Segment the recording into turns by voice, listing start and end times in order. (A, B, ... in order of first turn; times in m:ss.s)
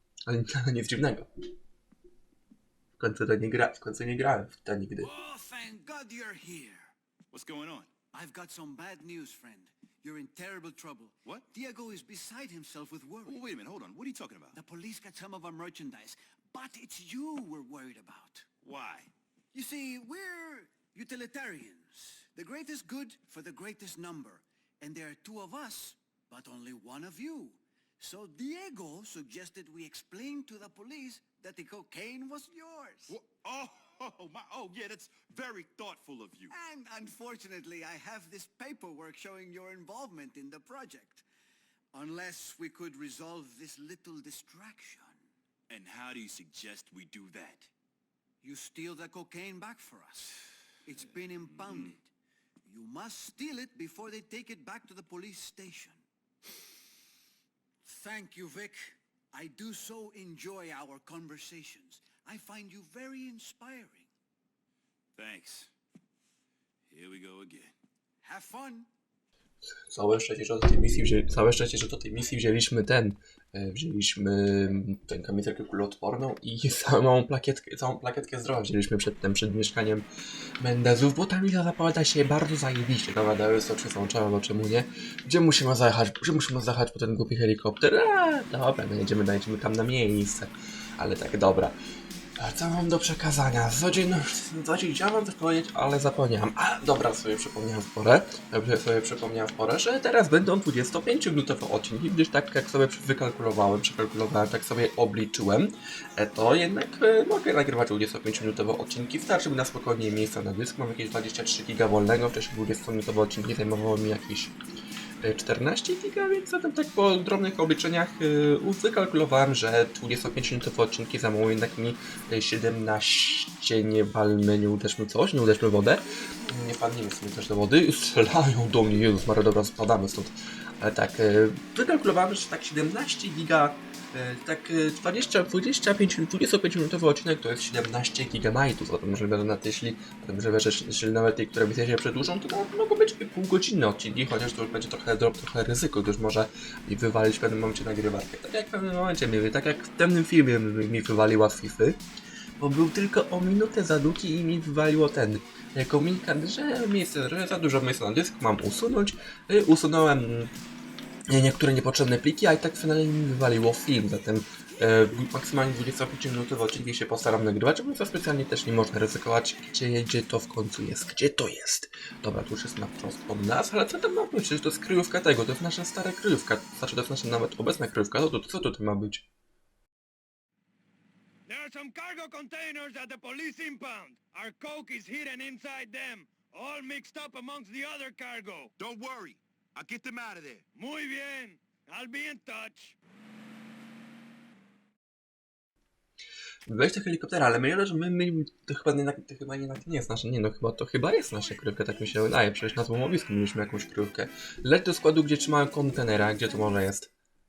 0:00.3-0:01.3 A
0:03.0-0:05.1 A
0:05.0-0:06.9 B
0:07.3-0:07.9 C
0:08.1-0:13.4 B
0:13.2-0:14.6 C
0:14.5-0:18.5 B
0:18.6-0:19.1 C
0:19.5-0:33.2 B
0:33.1-0:36.5 C
0:36.5-0:41.2 B
0:41.9-0:45.2 B
0:45.7-0:47.7 C
0:48.4-0:52.0 B
0:51.4-0:52.0 C
0:52.6-0:56.0 B
0:57.8-1:04.1 B
1:05.2-1:05.7 C
1:06.9-1:07.7 C
1:08.2-1:08.9 B
1:09.9-1:20.0 A
1:20.6-1:31.7 A
1:32.4-1:54.6 A
1:55.2-2:32.0 A
2:32.6-2:40.5 A
2:41.3-2:59.2 A
3:01.5-3:08.7 D
3:08.8-3:10.7 C
3:10.7-3:13.0 D
3:16.7-3:27.1 A